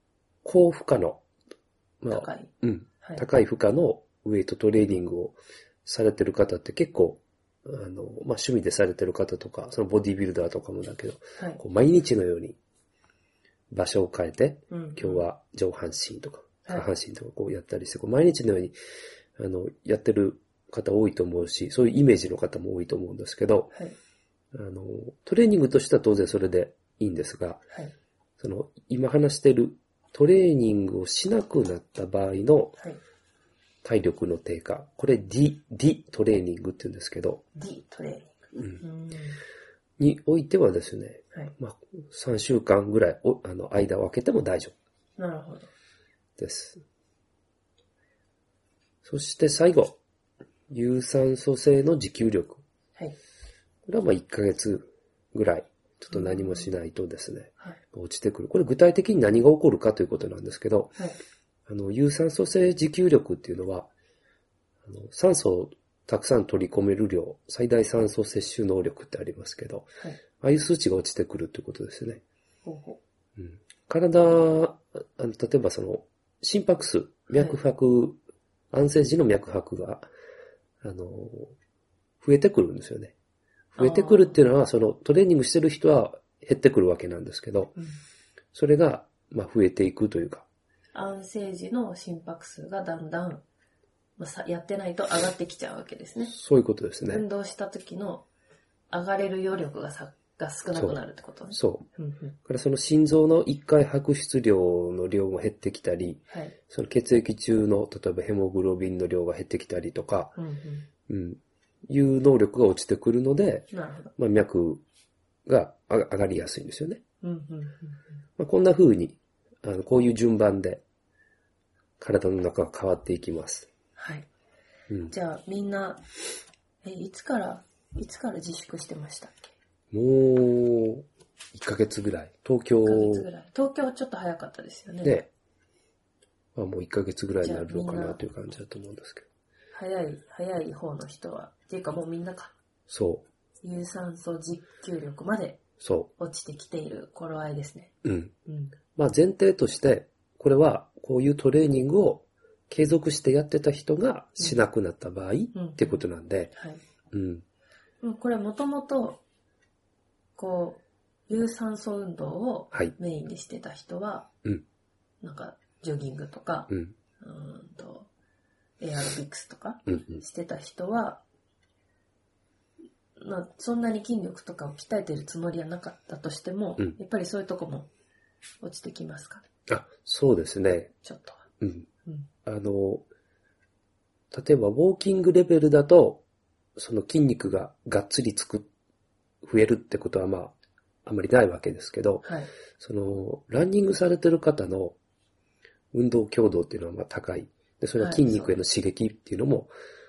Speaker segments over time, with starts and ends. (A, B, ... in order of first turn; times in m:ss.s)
0:00.4-0:01.2 A
0:02.0-0:12.6 A
0:02.1-0:02.5 B
0:13.7-0:18.8 A
0:14.7-0:15.2 B
0:19.4-0:23.7 A
0:24.5-0:27.6 A
0:28.4-0:32.8 A
0:33.8-0:37.4 A
0:37.6-0:39.4 B
0:40.0-0:44.7 A
0:45.2-0:45.7 B
0:46.4-0:46.8 A
0:49.0-0:50.0 A
0:50.7-0:52.6 A
0:53.9-1:01.0 A
0:56.1-0:56.7 B
1:01.7-1:03.9 A
1:04.9-1:09.9 A
1:10.4-1:12.2 A
1:12.7-1:13.0 B
1:13.4-1:18.2 A
1:18.7-1:20.1 A
1:20.8-1:21.5 A
1:22.2-1:23.1 A
1:23.7-1:27.7 A
1:23.8-1:24.4 B
1:28.5-1:30.5 A
1:30.9-1:33.4 B
1:34.2-1:36.4 B
1:36.3-1:37.2 A
1:37.1-1:38.3 B
1:38.9-1:42.4 B
1:40.8-1:41.9 A
1:42.5-1:50.4 A
1:46.3-1:46.6 B
1:50.4-1:50.9 B
1:51.1-1:54.8 A
1:53.7-1:54.1 B
1:55.5-1:57.0 A
1:57.2-1:58.0 B
1:58.4-2:00.8 A
2:02.0-2:03.7 A
2:04.0-2:04.3 B
2:05.1-2:06.0 B
2:06.8-2:09.5 B
2:09.9-2:13.3 A
2:12.8-2:15.2 B
2:15.0-2:15.3 A
2:16.6-2:19.3 A
2:17.4-2:18.2 B
2:19.7-2:22.5 B
2:22.9-2:23.3 A
2:23.6-2:25.6 B
2:25.8-2:26.1 A
2:26.2-2:27.9 B
2:28.0-2:28.3 A
2:28.5-2:28.8 B
2:29.0-2:36.5 A
2:35.5-2:36.0 B
2:36.6-2:36.8 B
2:37.1-2:37.4 A
2:38.0-2:39.2 B
2:40.4-2:44.3 B
2:45.2-2:48.1 B
2:46.7-2:47.0 A
2:48.8-2:51.2 B
2:49.9-2:50.2 A
2:53.2-2:57.9 B
2:58.6-2:59.4 B
2:59.7-3:00.9 A
3:01.0-3:01.4 B
3:01.6-3:01.9 A
3:02.4-3:03.0 A
3:04.3-3:06.2 A
3:06.8-3:08.7 A
3:09.4-3:10.5 A
3:11.0-3:12.3 A
3:12.2-3:12.5 B
3:12.8-3:15.0 A
3:15.9-3:19.7 A
3:18.0-3:18.6 B